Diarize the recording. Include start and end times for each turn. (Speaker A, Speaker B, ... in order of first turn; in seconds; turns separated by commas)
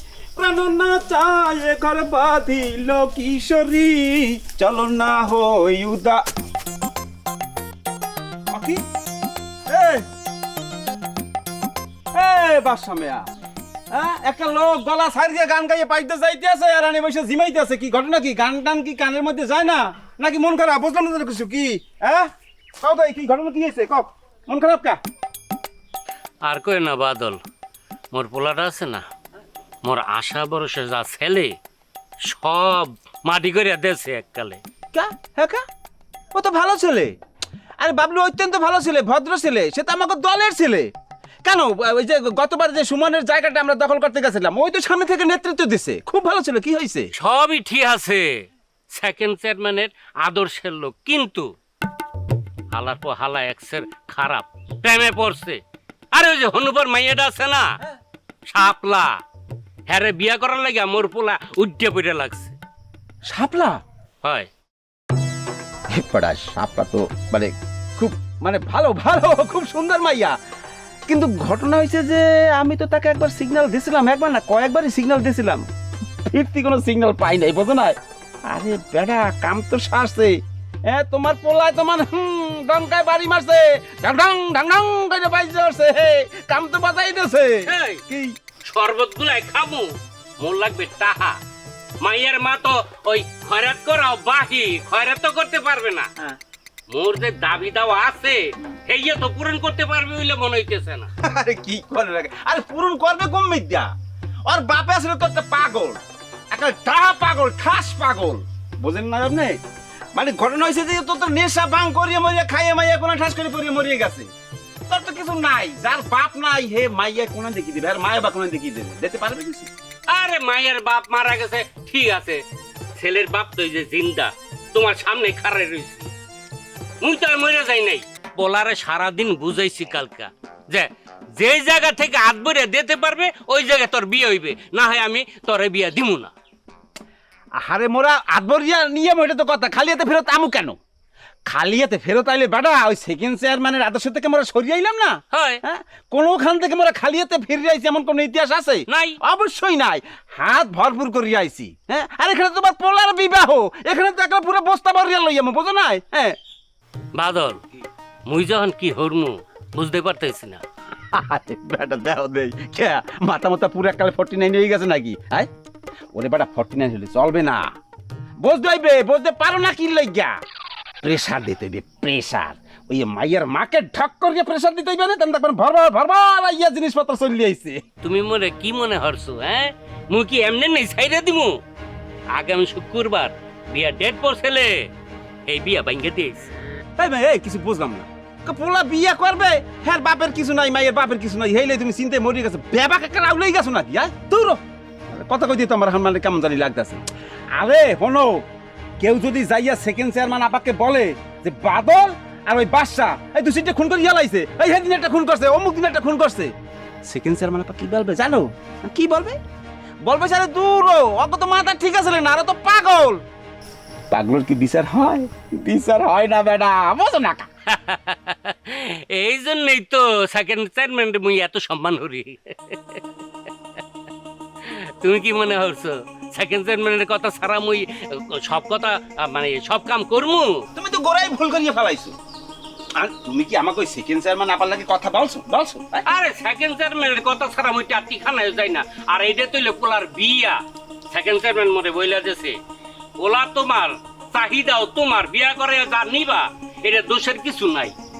Speaker A: 0.4-6.2, Speaker A: 8.5-8.8, Speaker A: 9.7-10.0, Speaker A: 12.1-13.3, Speaker A: 13.9-25.0, Speaker B: 26.4-27.4, Speaker B: 28.1-29.0, Speaker B: 29.8-31.5, Speaker B: 32.2-34.6, Speaker A: 34.9-35.6, Speaker A: 36.3-37.1, Speaker A: 37.8-40.9, Speaker A: 41.4-47.1, Speaker B: 47.2-48.4, Speaker B: 48.9-51.5, Speaker B: 52.7-55.6, Speaker B: 56.1-57.8, Speaker B: 58.5-59.2, Speaker B: 59.9-62.5, Speaker A: 63.3-63.8, Speaker B: 64.2-64.5, Speaker A: 65.9-70.3, Speaker A: 71.1-75.7, Speaker A: 76.3-88.3, Speaker B: 87.6-88.0, Speaker B: 88.7-91.4, Speaker B: 92.0-96.1, Speaker B: 96.9-101.1, Speaker A: 101.2-103.9, Speaker A: 104.5-109.6, Speaker A: 110.1-114.3, Speaker A: 114.9-119.7, Speaker B: 120.1-122.4, Speaker B: 123.0-126.1, Speaker B: 127.0-136.3, Speaker A: 137.6-140.8, Speaker A: 141.5-156.4, Speaker B: 145.3-145.6, Speaker B: 148.9-149.2, Speaker B: 157.1-157.6, Speaker B: 158.3-160.6, Speaker A: 161.1-165.5, Speaker A: 166.1-167.6, Speaker A: 168.4-170.3, Speaker A: 171.0-177.8, Speaker B: 178.0-181.6, Speaker B: 182.3-184.9, Speaker B: 185.5-186.5, Speaker A: 187.0-194.6, Speaker A: 195.1-197.0, Speaker A: 197.5-198.4, Speaker A: 199.0-206.5, Speaker A: 207.1-209.4, Speaker A: 210.0-213.2, Speaker A: 214.1-217.5, Speaker B: 217.7-223.0, Speaker B: 224.6-230.7, Speaker A: 230.7-232.1, Speaker A: 233.0-236.0, Speaker B: 236.1-240.6, Speaker B: 241.1-242.6, Speaker B: 243.2-247.9